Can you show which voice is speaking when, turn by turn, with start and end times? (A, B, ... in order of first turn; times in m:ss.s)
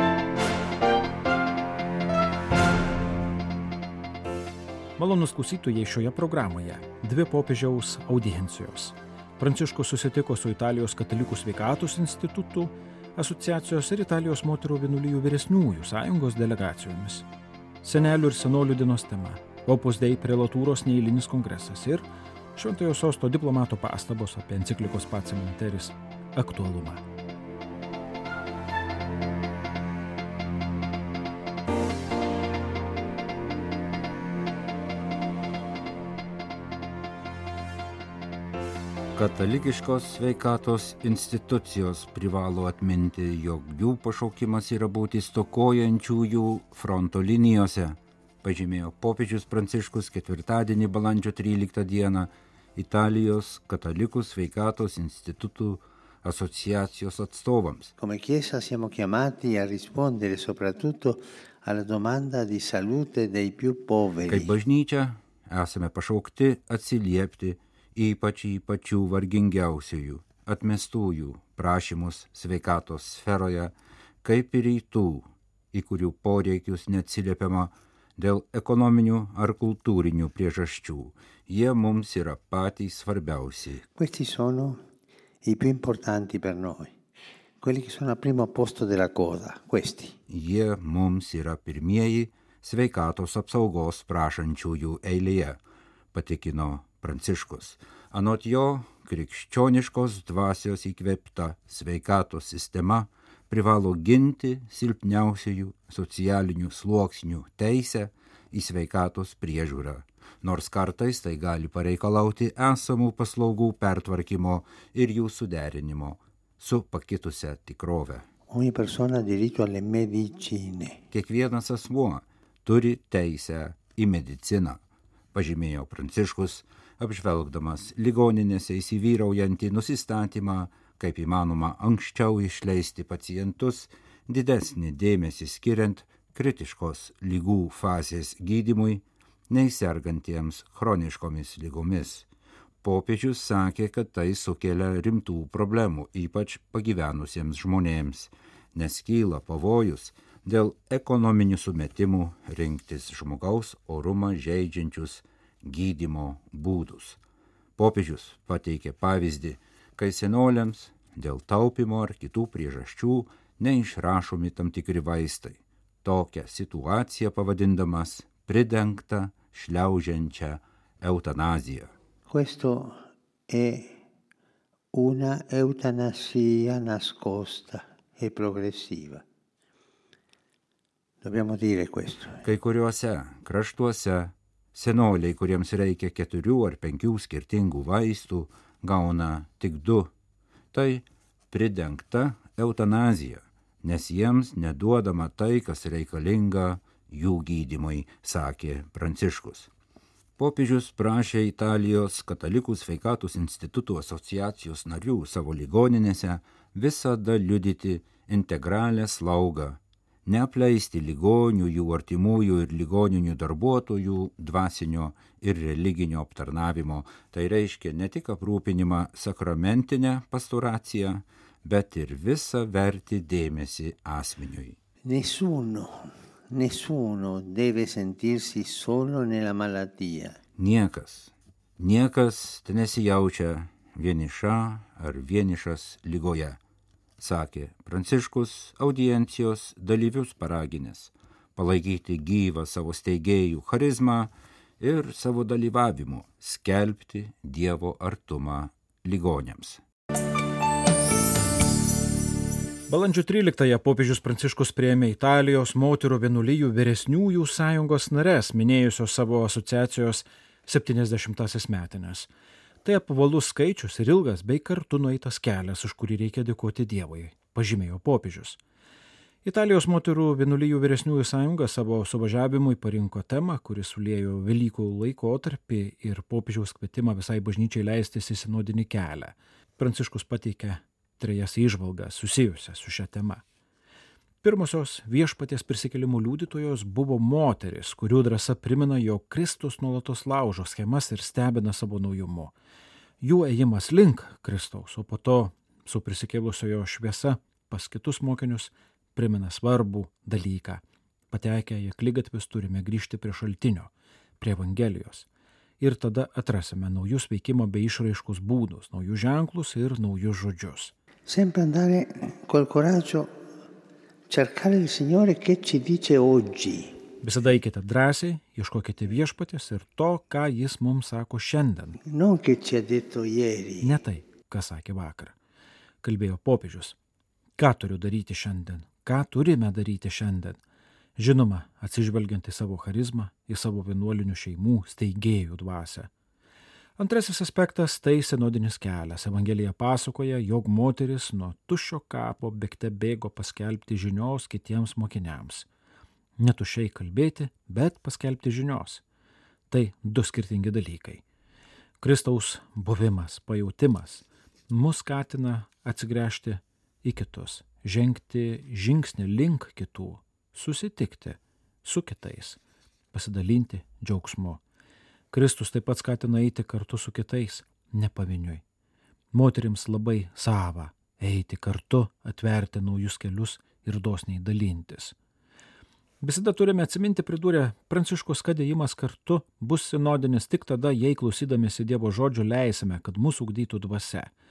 0:05.0-0:17.2 A
0:17.8-0:27.0 A
0:39.1-0:57.9 B
0:58.0-1:04.5 C
1:04.3-1:13.7 B
1:14.2-1:23.8 B
1:23.9-1:24.8 C
1:25.4-1:26.9 C
1:27.6-1:30.2 C
1:30.3-1:35.6 B
1:36.1-1:58.2 B
1:58.5-2:01.0 C
2:01.1-2:04.8 B
2:05.3-2:22.3 B
2:22.8-2:37.2 B
2:37.8-2:51.9 B
2:52.3-2:52.9 C
2:53.5-2:53.9 C
2:54.9-2:59.2 C
3:01.2-3:02.4 C
3:02.4-3:10.1 B
3:10.7-3:19.7 B
3:20.4-3:44.8 B
3:45.0-3:50.4 C
3:50.6-3:56.6 B
3:57.2-4:09.8 B
4:12.9-4:22.3 A
4:22.8-4:28.6 A
4:29.4-4:43.4 A
4:44.4-4:52.5 A
4:53.2-5:05.3 A
5:05.8-5:10.9 A
5:11.3-5:13.3 C
5:14.3-5:17.0 C
5:17.2-5:22.0 A
5:22.0-5:24.0 C
5:23.8-5:25.3 A
5:26.0-5:27.0 A
5:27.6-5:30.6 A
5:31.2-5:36.1 A
5:37.0-5:45.7 A
5:46.4-5:49.0 A
5:49.7-5:51.2 A
5:52.0-6:02.6 A
6:03.1-6:04.6 A
6:05.3-6:08.6 A
6:09.3-6:15.1 A
6:16.2-6:24.3 A